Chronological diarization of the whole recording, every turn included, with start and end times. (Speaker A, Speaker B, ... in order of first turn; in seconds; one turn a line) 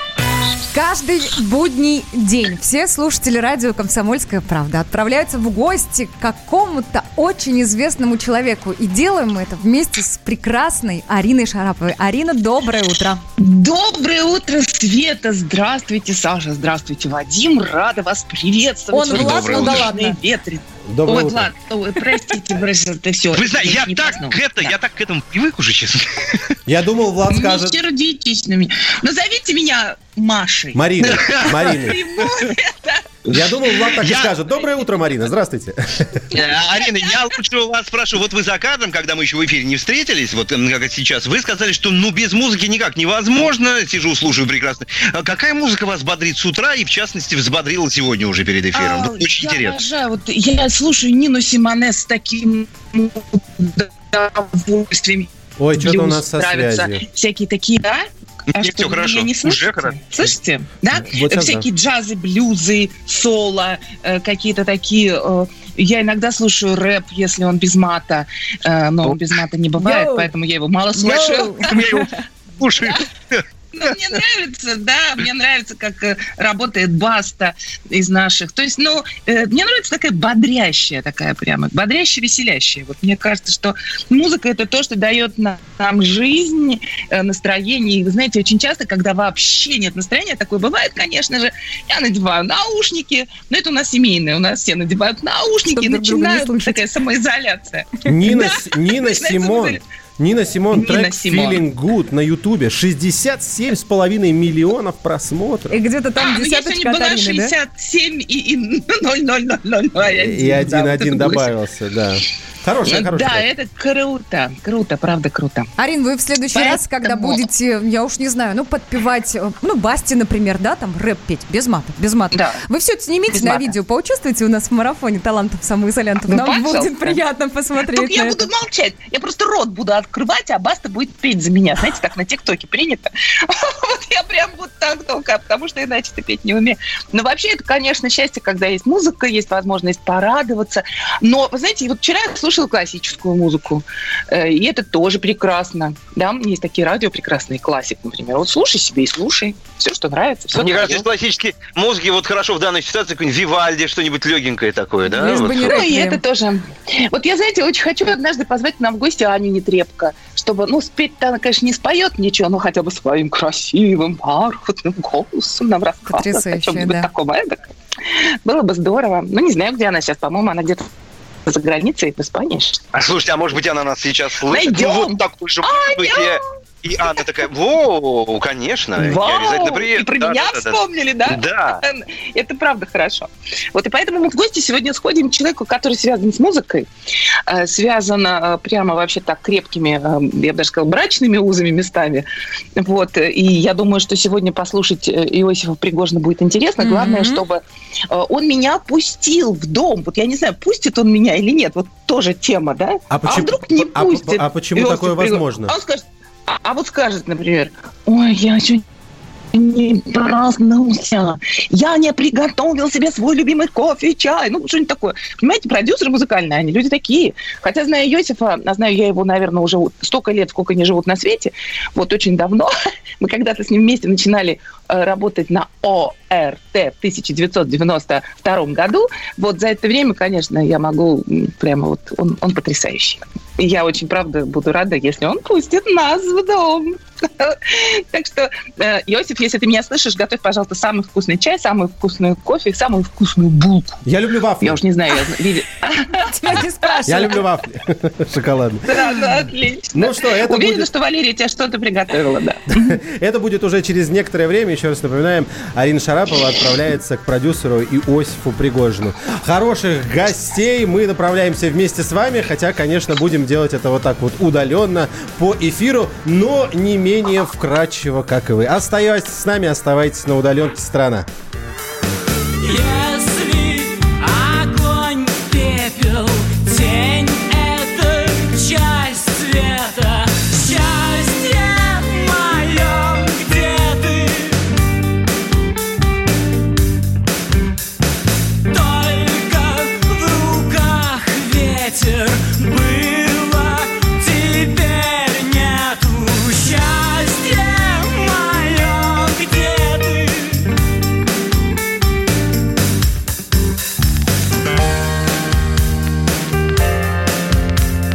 Speaker A: 0.7-13.2
Speaker B: 13.4-24.7
Speaker A: 18.9-20.2
Speaker C: 19.1-19.9
Speaker D: 20.9-21.5
Speaker C: 23.3-26.4
Speaker D: 26.7-27.8
Speaker B: 27.3-33.0
Speaker D: 30.8-32.0
Speaker C: 31.1-31.7
Speaker D: 33.3-36.2
Speaker C: 34.0-34.4
Speaker C: 36.3-49.8
Speaker B: 36.4-37.2
Speaker B: 48.7-71.8
Speaker D: 55.6-57.0
Speaker C: 58.5-60.0
Speaker D: 60.9-61.7
Speaker A: 69.8-70.3
Speaker A: 71.0-72.1
Speaker C: 71.7-72.1
Speaker C: 72.6-74.0
Speaker B: 73.8-98.5
Speaker A: 95.7-96.8
Speaker D: 98.1-105.8
Speaker B: 99.1-99.8
Speaker B: 100.7-101.6
Speaker A: 105.7-107.5
Speaker B: 106.2-111.5
Speaker D: 110.0-113.5
Speaker B: 112.9-115.7
Speaker A: 115.8-128.4
Speaker B: 116.5-117.5
Speaker B: 122.3-122.6
Speaker B: 123.3-123.7
Speaker B: 126.3-127.2
Speaker B: 127.8-151.1
Speaker C: 150.5-155.9
Speaker A: 155.1-156.2
Speaker B: 155.6-167.6
Speaker A: 166.1-167.1
Speaker B: 168.1-170.9
Speaker B: 171.5-172.9
Speaker C: 172.9-181.8
Speaker B: 174.5-176.4
Speaker B: 179.0-186.9
Speaker B: 187.5-192.3
Speaker B: 192.8-208.8
Speaker A: 196.8-197.4
Speaker D: 203.1-205.8
Speaker B: 209.5-244.0
Speaker D: 244.1-244.8
Speaker B: 244.6-247.3
Speaker A: 246.2-247.4
Speaker D: 247.1-249.2
Speaker B: 248.9-252.9
Speaker D: 249.9-250.9
Speaker D: 252.8-271.3
Speaker E: 272.6-284.6
Speaker E: 288.7-300.7